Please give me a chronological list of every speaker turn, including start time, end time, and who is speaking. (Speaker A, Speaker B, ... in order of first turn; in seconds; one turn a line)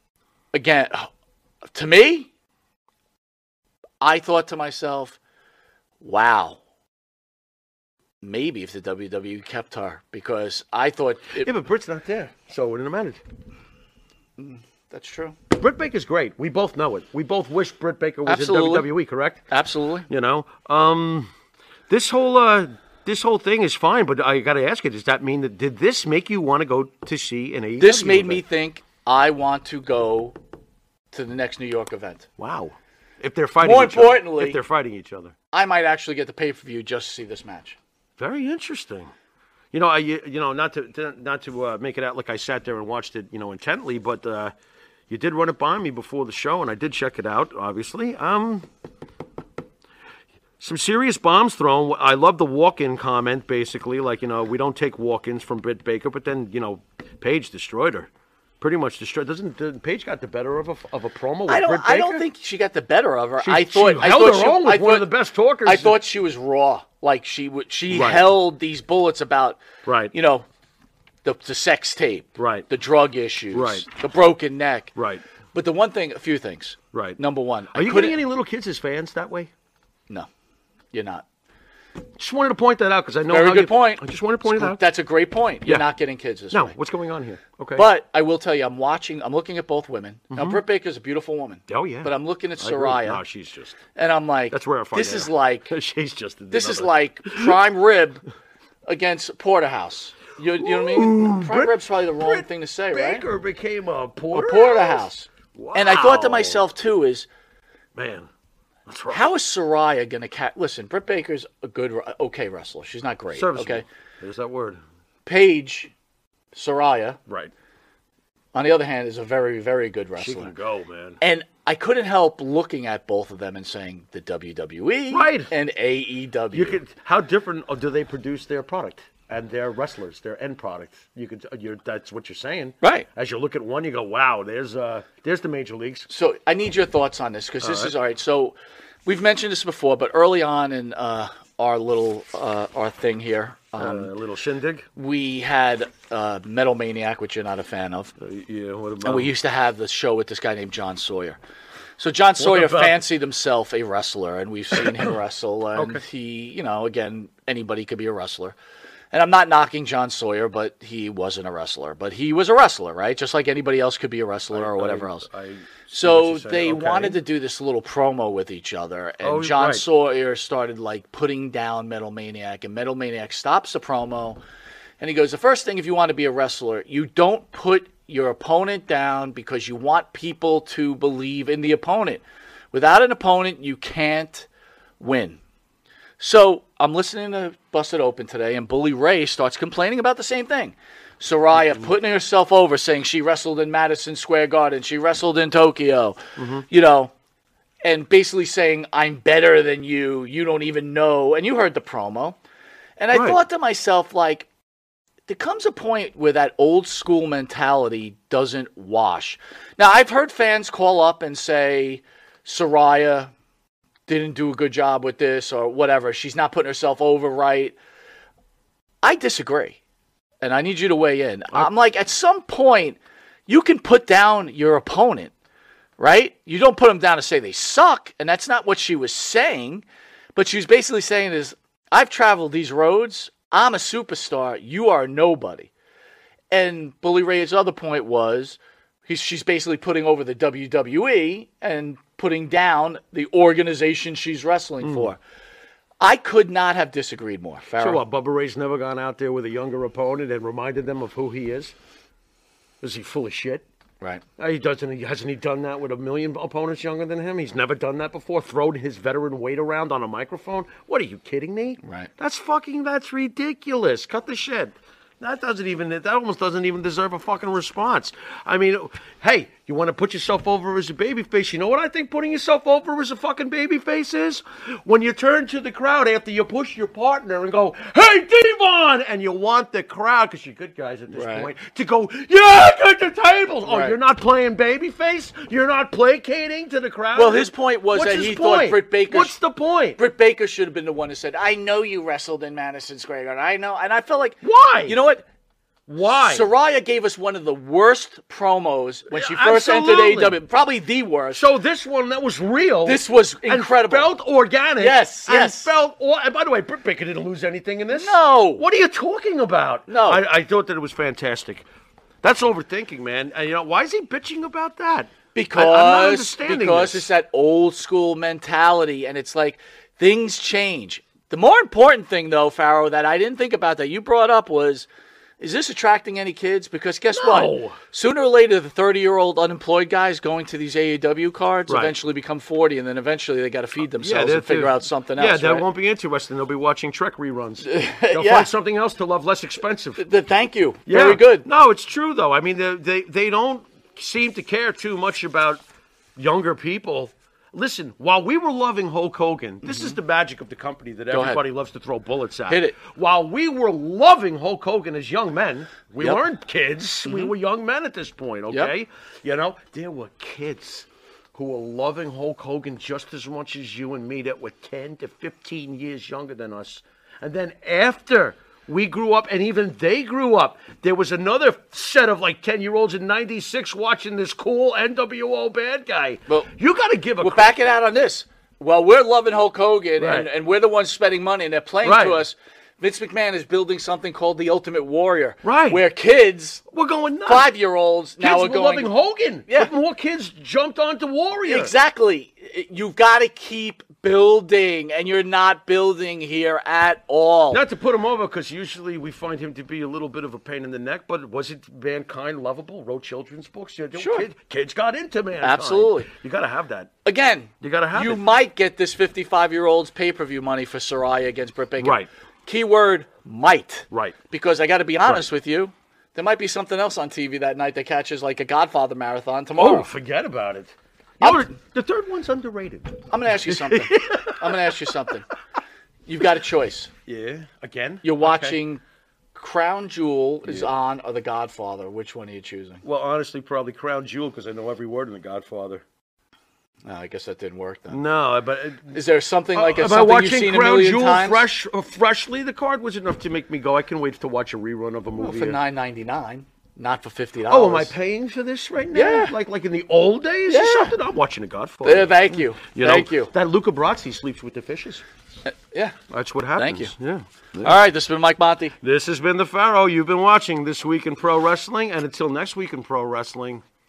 Speaker A: 0.5-1.1
Speaker A: 1.7-2.3
Speaker A: 4.0-5.2
Speaker A: 6.0-6.6
Speaker A: 8.2-11.5
Speaker B: 11.4-13.2
Speaker A: 14.4-15.4
Speaker B: 15.5-19.4
Speaker A: 18.3-18.9
Speaker A: 19.5-20.1
Speaker B: 20.1-21.3
Speaker B: 21.9-28.4
Speaker A: 27.8-30.4
Speaker A: 31.1-32.3
Speaker B: 32.4-35.3
Speaker A: 33.6-34.6
Speaker A: 35.5-37.8
Speaker B: 38.2-39.1
Speaker B: 39.7-44.5
Speaker B: 45.1-48.7
Speaker B: 50.6-58.1
Speaker B: 58.6-62.3
Speaker A: 61.5-65.1
Speaker B: 63.4-66.0
Speaker A: 65.6-69.6
Speaker B: 67.9-68.3
Speaker B: 69.8-70.1
Speaker A: 70.1-70.5
Speaker A: 71.2-74.9
Speaker B: 72.4-72.7
Speaker B: 73.5-73.9
Speaker B: 75.0-75.2
Speaker A: 75.5-78.2
Speaker B: 76.9-77.2
Speaker B: 77.7-79.5
Speaker A: 80.9-81.2
Speaker B: 82.2-84.8
Speaker A: 83.3-86.8
Speaker B: 85.7-85.9
Speaker B: 86.5-87.9
Speaker A: 87.8-93.2
Speaker B: 90.3-90.6
Speaker B: 91.7-93.8
Speaker A: 94.0-95.7
Speaker B: 94.5-97.6
Speaker A: 96.5-98.2
Speaker A: 98.9-103.3
Speaker B: 100.6-106.7
Speaker A: 104.3-107.3
Speaker B: 108.0-108.3
Speaker B: 108.9-109.3
Speaker A: 109.1-113.8
Speaker B: 113.3-114.8
Speaker A: 115.2-115.9
Speaker A: 116.5-117.2
Speaker B: 117.3-117.5
Speaker A: 118.5-120.5
Speaker B: 120.2-121.2
Speaker A: 121.2-126.8
Speaker B: 125.1-125.5
Speaker B: 126.5-136.1
Speaker A: 132.8-133.1
Speaker A: 136.1-144.1
Speaker B: 137.6-137.9
Speaker B: 143.8-144.9
Speaker A: 145.0-148.1
Speaker B: 148.2-149.3
Speaker A: 149.0-151.4
Speaker A: 152.0-158.6
Speaker B: 152.4-153.0
Speaker B: 154.7-155.1
Speaker B: 155.8-156.0
Speaker A: 159.1-165.3
Speaker B: 164.5-167.2
Speaker A: 165.9-174.4
Speaker B: 169.2-169.9
Speaker A: 175.0-184.5
Speaker A: 185.0-185.4
Speaker A: 186.2-197.1
Speaker B: 196.4-196.7
Speaker A: 197.8-202.4
Speaker A: 203.0-204.5
Speaker B: 203.1-203.4
Speaker A: 205.3-213.3
Speaker A: 214.1-217.8
Speaker A: 219.0-219.8
Speaker A: 220.4-225.3
Speaker A: 226.0-235.7
Speaker A: 236.5-245.2
Speaker B: 244.8-245.1
Speaker A: 246.0-248.0
Speaker B: 247.8-251.8
Speaker B: 252.8-253.6
Speaker B: 254.4-290.0
Speaker A: 261.8-262.1
Speaker A: 281.1-281.5
Speaker A: 283.6-284.0
Speaker A: 287.1-289.4
Speaker A: 289.9-295.2
Speaker B: 294.4-295.0
Speaker B: 295.9-296.5
Speaker A: 296.0-301.5
Speaker B: 299.1-300.4
Speaker B: 301.3-311.6
Speaker A: 302.8-304.1
Speaker A: 304.8-305.7
Speaker A: 307.9-308.6
Speaker A: 309.9-310.2
Speaker B: 312.2-317.1
Speaker A: 315.3-324.9
Speaker A: 325.4-335.7
Speaker B: 327.1-327.8
Speaker B: 331.7-332.0
Speaker B: 334.0-340.1
Speaker A: 337.6-338.5
Speaker A: 340.0-341.5
Speaker B: 340.9-345.6
Speaker B: 346.2-377.5
Speaker A: 349.6-350.0
Speaker A: 351.1-351.4
Speaker A: 352.5-352.8
Speaker A: 357.1-357.3
Speaker A: 377.2-386.6
Speaker B: 380.0-380.3
Speaker B: 381.8-382.2
Speaker B: 385.4-385.8
Speaker B: 386.7-387.5
Speaker A: 387.3-388.9
Speaker B: 388.2-391.8
Speaker A: 389.5-389.7
Speaker A: 391.4-397.6
Speaker B: 397.5-406.9
Speaker A: 403.9-404.3
Speaker A: 405.4-406.1
Speaker A: 407.1-419.9
Speaker B: 407.6-408.2
Speaker B: 411.8-412.1
Speaker B: 413.9-414.2
Speaker B: 419.6-425.0
Speaker A: 421.2-421.5
Speaker A: 423.1-425.3
Speaker A: 426.1-426.9
Speaker B: 427.1-428.6
Speaker A: 428.0-428.8
Speaker A: 429.3-432.8
Speaker B: 430.4-430.7
Speaker B: 432.8-435.8
Speaker A: 436.9-438.0
Speaker B: 437.9-439.0
Speaker A: 438.9-441.5
Speaker B: 439.5-445.6
Speaker A: 445.2-447.9
Speaker B: 447.5-455.1
Speaker A: 448.9-449.4
Speaker A: 450.5-451.0
Speaker A: 451.8-453.3
Speaker A: 455.5-456.0
Speaker B: 456.1-457.8
Speaker A: 456.6-456.9
Speaker A: 457.6-458.8
Speaker B: 458.8-463.6